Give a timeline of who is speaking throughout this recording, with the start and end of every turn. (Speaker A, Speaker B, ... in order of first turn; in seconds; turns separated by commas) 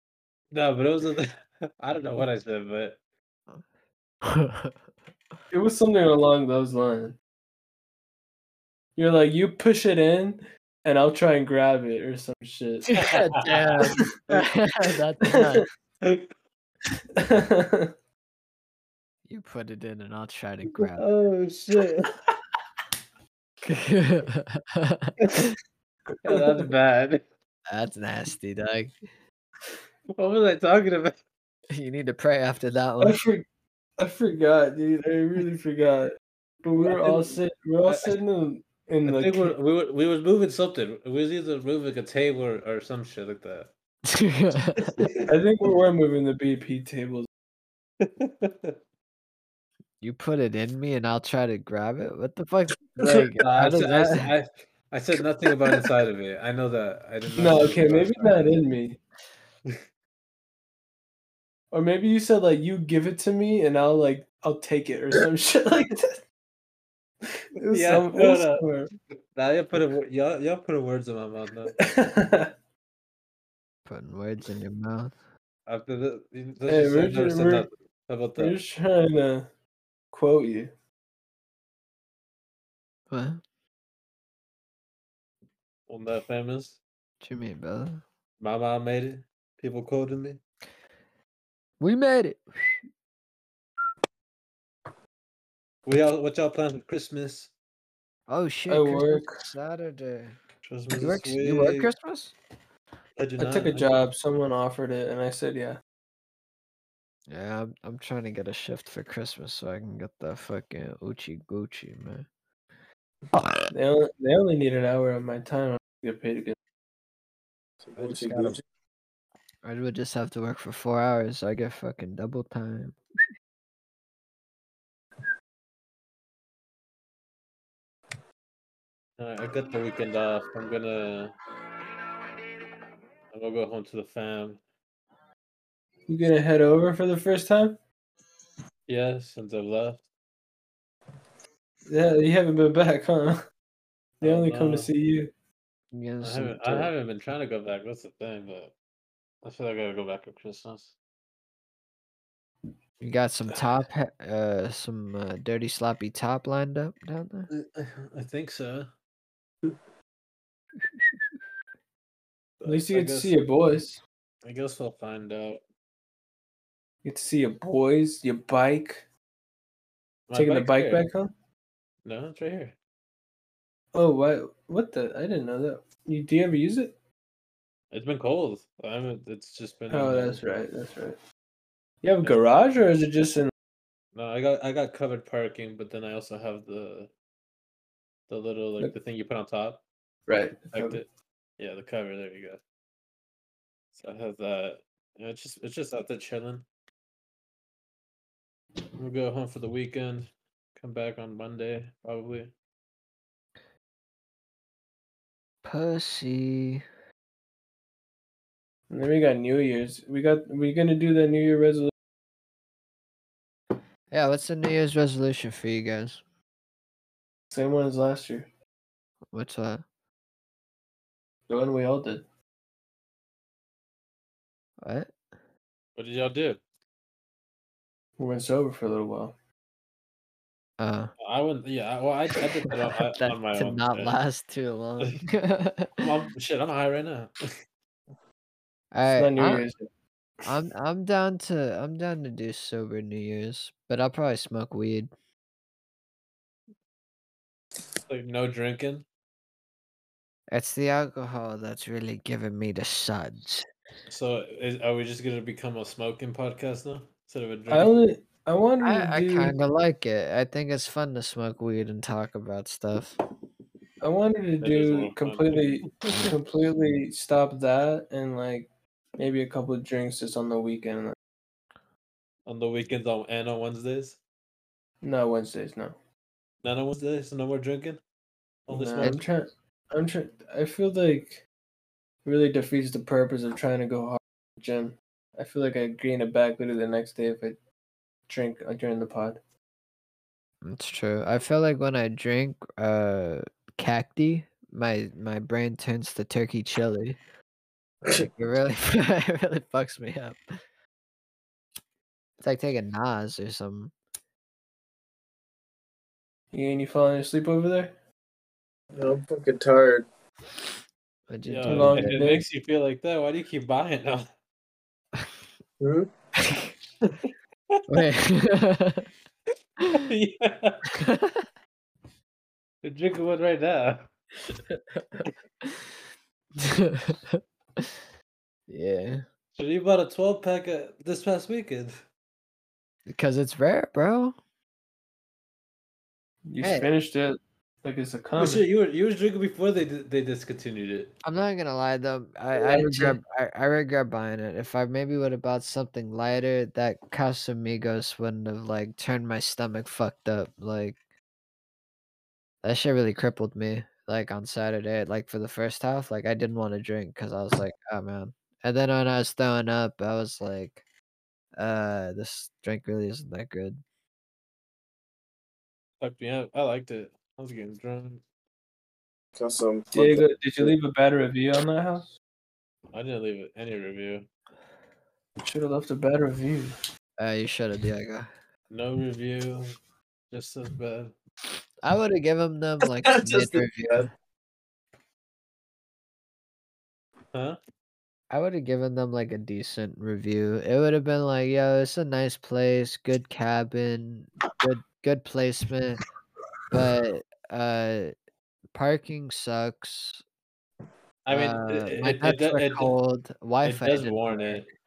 Speaker A: 0.5-3.0, Speaker B: 4.2-4.8, Speaker C: 5.5-7.2, Speaker C: 9.0-13.0, Speaker B: 12.9-15.7, Speaker A: 13.0-14.5, Speaker C: 17.2-17.9, Speaker B: 19.3-21.1, Speaker A: 20.8-22.1, Speaker B: 23.6-25.5, Speaker A: 26.2-27.2, Speaker B: 27.7-28.9, Speaker A: 30.1-31.2, Speaker B: 31.7-33.2, Speaker C: 33.0-33.5, Speaker C: 34.0-39.5, Speaker A: 36.8-38.1, Speaker A: 39.1-43.7, Speaker B: 44.1-45.0, Speaker A: 44.8-45.2, Speaker C: 45.3-47.3, Speaker A: 48.0-48.8, Speaker B: 50.0-54.3, Speaker A: 53.3-58.5, Speaker C: 57.4-59.0, Speaker C: 61.7-66.2, Speaker C: 67.6-68.9, Speaker A: 67.7-68.7, Speaker A: 69.3-71.8, Speaker C: 71.8-72.5, Speaker B: 73.9-75.2, Speaker A: 75.7-78.6, Speaker C: 76.7-77.7, Speaker C: 78.4-79.5, Speaker C: 80.1-80.7, Speaker B: 83.1-83.4, Speaker A: 85.9-86.8, Speaker B: 87.2-88.0, Speaker A: 88.4-90.4, Speaker B: 91.8-92.8, Speaker A: 95.9-97.5, Speaker B: 98.3-100.4, Speaker C: 98.7-99.4, Speaker A: 100.6-101.9, Speaker B: 101.0-102.3, Speaker A: 103.2-104.0, Speaker C: 103.4-105.8, Speaker B: 107.3-112.3, Speaker B: 113.3-113.7, Speaker C: 113.7-116.6, Speaker D: 117.8-118.6, Speaker B: 118.0-118.6, Speaker B: 119.6-123.0, Speaker A: 129.2-131.3, Speaker A: 133.3-134.6, Speaker C: 136.1-137.8, Speaker A: 138.9-140.0, Speaker C: 141.9-143.4, Speaker C: 144.2-145.3, Speaker A: 144.2-144.9, Speaker B: 145.9-146.9, Speaker A: 146.2-148.7, Speaker A: 149.4-150.9, Speaker B: 153.0-157.5, Speaker A: 157.5-158.9, Speaker A: 162.6-163.4, Speaker C: 162.7-164.0, Speaker A: 164.4-165.6, Speaker C: 167.0-169.1, Speaker A: 170.3-171.1, Speaker C: 170.3-171.3, Speaker A: 172.1-172.8, Speaker C: 173.9-177.0, Speaker A: 177.9-180.5, Speaker C: 179.9-181.2, Speaker C: 182.0-183.5, Speaker A: 184.2-187.1, Speaker A: 188.3-189.8, Speaker C: 190.3-191.0, Speaker A: 190.7-191.1, Speaker A: 191.6-192.6, Speaker A: 193.9-196.7, Speaker A: 199.0-202.5, Speaker B: 205.6-206.8, Speaker C: 208.9-211.9, Speaker B: 214.1-216.2, Speaker C: 217.5-218.5, Speaker B: 219.3-219.8, Speaker C: 221.5-222.2, Speaker B: 224.8-225.1, Speaker A: 226.0-226.6, Speaker C: 228.2-229.3, Speaker B: 230.8-231.1, Speaker A: 231.2-234.1, Speaker B: 232.8-236.1, Speaker A: 236.0-237.4, Speaker B: 238.9-239.7, Speaker C: 239.2-239.9, Speaker B: 240.4-245.1, Speaker A: 248.0-249.0, Speaker B: 250.5-253.7, Speaker A: 254.1-257.9, Speaker C: 257.7-259.5, Speaker B: 258.8-263.2, Speaker C: 264.0-271.1, Speaker A: 264.6-266.2, Speaker A: 272.5-274.2, Speaker C: 275.0-276.0, Speaker A: 276.6-278.0, Speaker A: 278.7-279.2, Speaker C: 278.7-281.4, Speaker C: 282.2-287.6, Speaker C: 288.3-289.4, Speaker B: 290.6-297.2, Speaker B: 298.1-300.4, Speaker B: 302.4-303.9, Speaker C: 306.5-307.9, Speaker D: 308.9-310.1, Speaker B: 311.3-312.2, Speaker A: 311.5-314.3, Speaker C: 311.7-312.4, Speaker D: 315.8-316.1, Speaker B: 316.4-316.7, Speaker B: 317.9-319.1, Speaker A: 319.9-320.9, Speaker B: 321.0-321.5, Speaker A: 322.8-324.1, Speaker B: 326.6-328.0, Speaker B: 328.7-329.2, Speaker A: 329.6-332.0, Speaker B: 333.1-334.4, Speaker C: 336.5-338.6, Speaker B: 336.6-336.9, Speaker A: 338.4-341.1, Speaker B: 341.2-351.0, Speaker C: 342.6-343.2, Speaker B: 352.6-360.8, Speaker B: 361.6-363.8, Speaker A: 366.0-368.2, Speaker D: 369.4-370.3, Speaker C: 369.9-372.1, Speaker A: 372.9-374.3, Speaker C: 375.4-376.8, Speaker B: 377.2-378.3, Speaker A: 378.7-379.8, Speaker A: 380.3-381.1, Speaker B: 381.8-384.1, Speaker D: 383.1-384.1, Speaker A: 387.3-387.6, Speaker B: 388.3-396.0, Speaker B: 396.7-398.1, Speaker B: 398.7-400.2, Speaker A: 401.3-402.9, Speaker B: 401.3-404.7, Speaker A: 403.6-404.7